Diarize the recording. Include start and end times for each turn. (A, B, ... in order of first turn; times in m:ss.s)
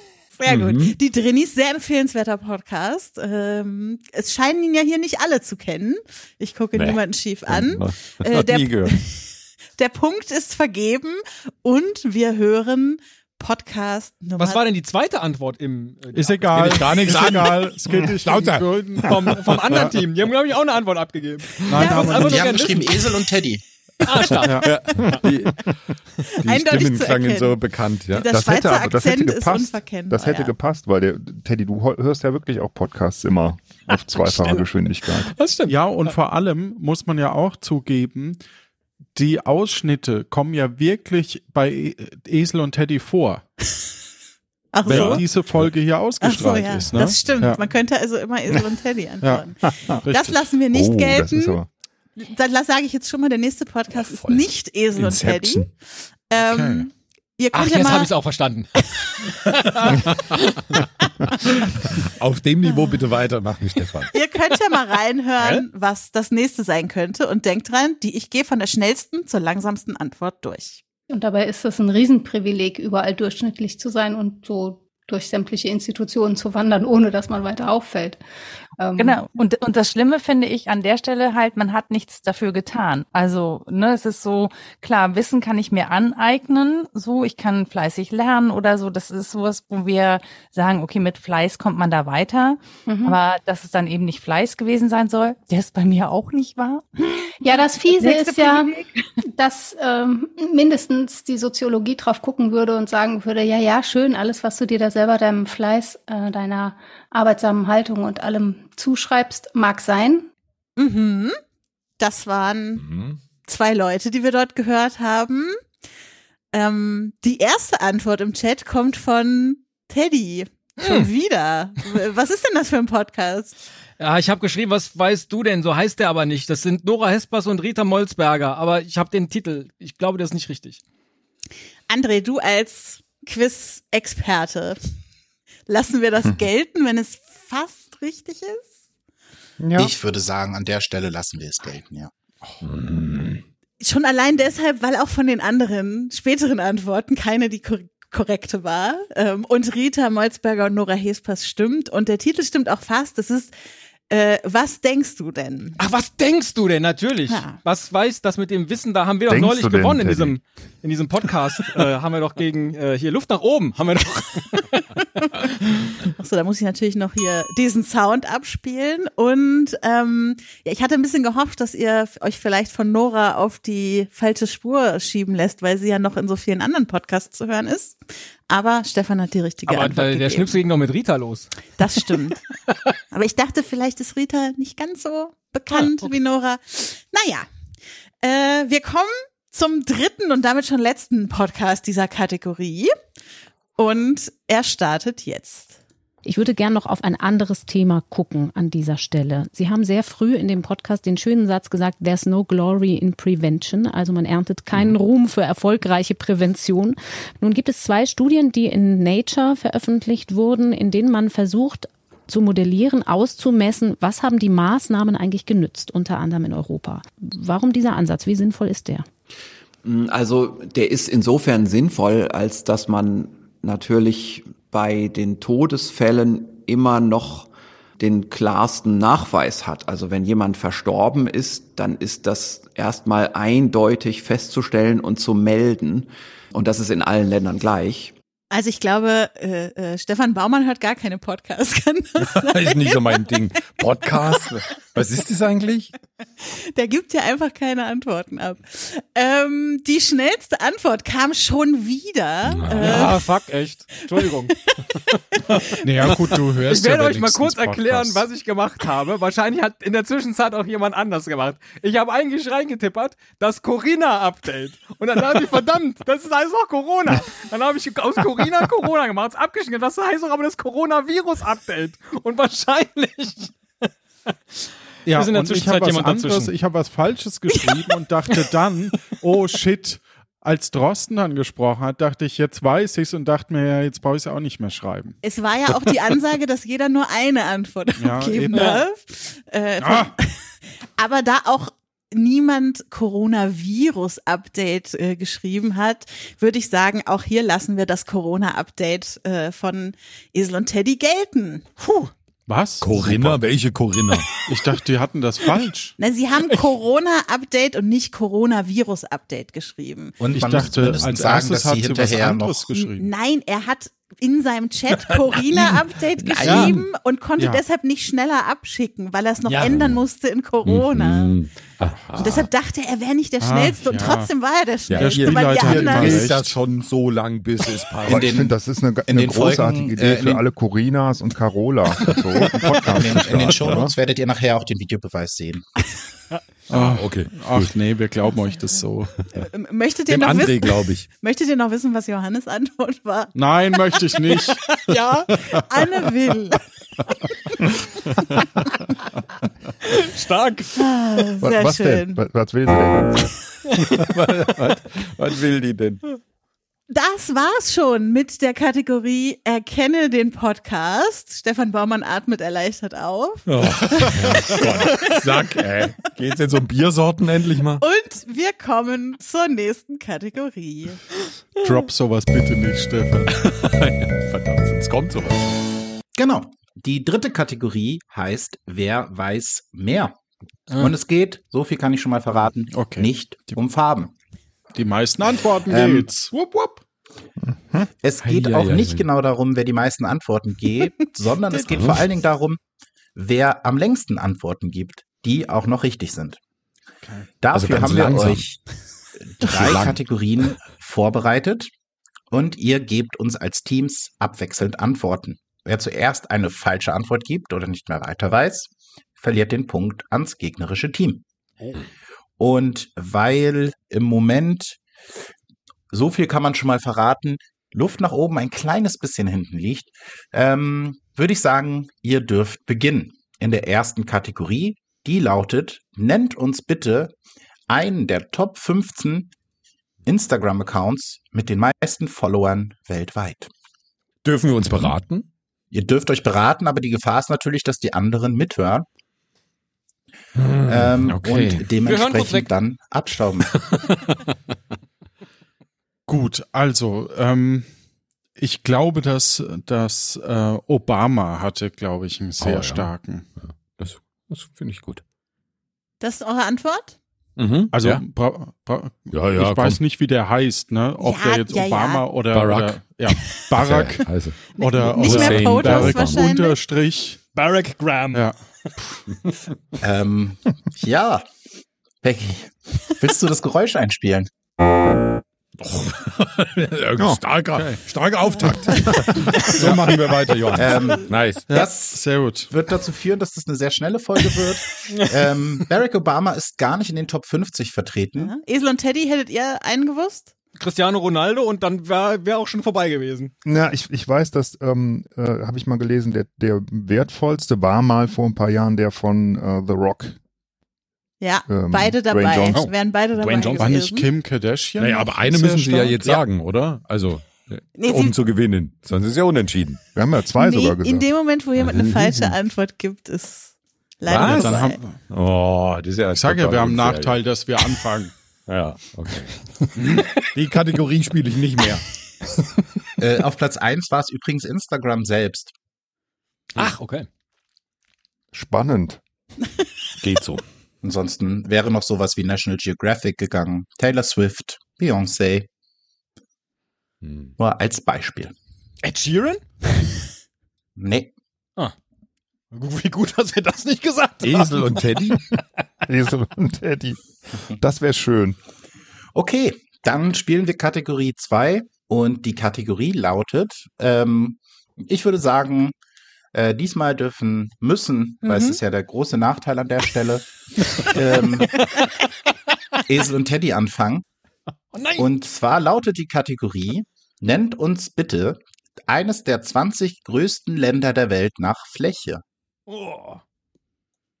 0:00.4-0:14.6 A
0:00.4-0:00.9 B
0:06.8-0:08.9 B
0:14.4-0:16.5 C
0:16.1-0:20.0 D
0:16.5-0:19.1 B
0:19.0-0:23.0 C
0:21.7-0:22.6 D
0:21.8-0:22.3 A
0:22.1-0:23.6 E
0:24.0-0:25.2 C
0:24.4-0:24.7 D
0:24.6-0:25.7 B
0:26.3-0:28.3 B
0:26.4-0:27.6 A
0:28.1-0:30.5 A
0:28.3-0:35.3 F
0:33.9-0:35.9 C
0:35.6-0:38.4 D
0:39.1-0:43.4 D
0:44.7-0:45.2 A
0:44.8-0:47.6 D
0:44.9-0:45.6 B
0:46.2-0:51.6 A
0:49.2-0:49.5 D
0:49.7-0:50.0 F
0:50.0-0:50.4 D
0:50.7-0:51.7 F
0:52.2-0:55.7 A
0:54.0-0:55.7 B
0:56.3-0:58.1 A
0:56.4-0:56.9 D
0:57.5-0:58.7 C
0:59.3-1:00.0 C
0:59.8-1:00.4 B
1:01.4-1:04.1 B
1:04.1-1:10.8 A
1:05.4-1:05.6 C
1:11.1-1:18.2 G
1:18.8-1:19.2 G
1:19.0-1:36.8 H
1:32.8-1:33.2 G
1:37.4-1:38.7 G
1:37.4-1:39.0 H
1:39.3-1:50.3 G
1:50.8-1:51.4 A
1:52.0-1:52.8 A
1:52.8-1:53.2 B
1:53.4-1:55.6 A
1:56.5-2:03.6 A
2:04.0-2:10.8 C
2:11.9-2:14.8 A
2:15.7-2:18.7 A
2:19.6-2:19.9 F
2:19.8-2:22.1 E
2:22.6-2:23.4 B
2:23.8-2:33.5 A
2:34.1-2:35.8 A
2:35.8-2:44.7 C
2:37.3-2:37.6 A
2:39.3-2:40.4 F
2:46.1-3:00.6 A
2:59.7-3:01.5 C
3:01.8-3:02.4 A
3:03.1-3:07.4 A
3:05.7-3:06.1 C
3:08.2-3:12.9 A
3:13.8-3:15.8 A
3:16.2-3:39.0 I
3:39.8-3:58.1 J
3:58.5-4:03.3 A
4:02.2-4:05.9 B
4:06.7-4:13.2 A
4:12.5-4:13.1 B
4:12.7-4:14.6 C
4:15.8-4:18.2 D
4:16.6-4:33.5 C
4:35.0-4:45.2 D
4:35.1-4:36.5 C
4:45.2-4:50.3 A
4:48.0-4:48.7 D
4:48.5-4:48.8 C
4:49.8-4:50.1 D
4:51.0-5:01.6 A
5:01.8-5:02.1 C
5:02.5-5:03.4 D
5:02.8-5:04.3 B
5:04.4-5:05.9 D
5:06.0-5:10.2 A
5:10.2-5:12.6 E
5:10.3-5:13.1 D
5:12.7-5:21.3 A
5:16.4-5:16.6 B
5:16.4-5:16.8 D
5:19.5-5:19.8 C
5:19.6-5:20.0 B
5:20.6-5:22.5 B
5:22.2-5:26.3 A
5:23.4-5:24.3 D
5:24.9-5:28.3 B
5:24.9-5:26.6 D
5:28.0-5:30.4 E
5:28.0-5:33.9 F
5:32.8-5:35.6 E
5:36.7-5:39.2 D
5:36.7-5:37.7 B
5:39.3-5:43.3 A
5:40.1-5:41.1 B
5:43.3-5:44.6 D
5:44.0-5:46.6 A
5:44.9-5:45.3 C
5:45.3-5:45.6 D
5:49.9-5:50.7 C
5:50.8-5:52.2 A
5:51.4-5:53.3 F
5:53.8-5:56.0 B
5:56.9-6:05.1 A
6:03.4-6:07.8 B
6:07.8-6:11.0 A
6:11.6-6:13.4 D
6:13.3-6:15.6 B
6:16.2-6:20.1 E
6:20.7-6:24.1 E
6:22.7-6:23.6 D
6:24.7-6:26.8 D
6:25.7-6:26.1 E
6:27.5-6:27.8 F
6:28.0-6:32.6 E
6:28.2-6:29.1 B
6:31.7-6:32.0 B
6:33.2-6:36.4 E
6:37.0-6:37.3 D
6:37.4-6:38.6 E
6:37.5-6:38.4 B
6:39.2-6:41.7 E
6:39.4-6:40.0 B
6:42.3-6:51.2 E
6:52.4-6:54.8 E
6:55.9-7:07.1 E
7:07.7-7:09.3 E
7:10.0-7:13.5 E
7:14.2-7:15.3 B
7:15.7-7:18.8 E
7:20.4-7:21.7 B
7:20.6-7:23.5 E
7:21.8-7:22.5 C
7:23.5-7:23.9 B
7:26.1-7:27.7 D
7:28.4-7:33.3 D
7:32.4-7:32.9 B
7:33.4-7:35.0 B
7:36.0-7:37.0 A
7:37.4-7:38.0 B
7:37.7-7:47.2 D
7:39.1-7:39.8 B
7:41.0-7:42.0 A
7:42.3-7:46.2 B
7:44.6-7:46.6 A
7:47.3-7:48.7 C
7:49.8-7:51.2 E
7:52.0-7:54.3 E
7:55.6-8:01.4 B
7:57.5-7:57.8 D
7:59.6-7:59.9 D
8:00.5-8:08.3 E
8:01.5-8:02.5 D
8:08.2-8:10.3 A
8:10.6-8:13.3 C
8:13.4-8:20.2 F
8:21.2-8:24.1 A
8:21.5-8:22.6 F
8:23.2-8:23.7 C
8:23.4-8:26.2 D
8:24.8-8:29.8 B
8:27.8-8:28.1 A
8:29.9-8:31.0 F
8:30.4-8:34.8 A
8:31.6-8:32.3 B
8:34.1-8:37.2 B
8:34.1-8:35.0 D
8:36.1-8:38.1 D
8:38.5-8:39.4 B
8:39.8-8:40.1 D
8:39.9-8:41.8 B
8:43.0-8:45.5 E
8:46.6-8:47.1 C
8:48.3-8:49.0 F
8:50.0-8:50.4 B
8:50.8-8:55.5 E
8:57.0-8:57.3 B
8:57.4-8:58.3 E
8:58.8-8:59.4 C
9:00.8-9:01.1 E
9:02.5-9:04.8 C
9:04.2-9:05.2 B
9:05.8-9:07.0 F
9:07.6-9:08.4 F
9:09.1-9:15.7 E
9:16.3-9:21.7 E
9:18.2-9:18.6 A
9:22.8-9:24.0 E
9:24.7-9:25.1 C
9:25.0-9:32.2 E
9:32.7-9:33.2 C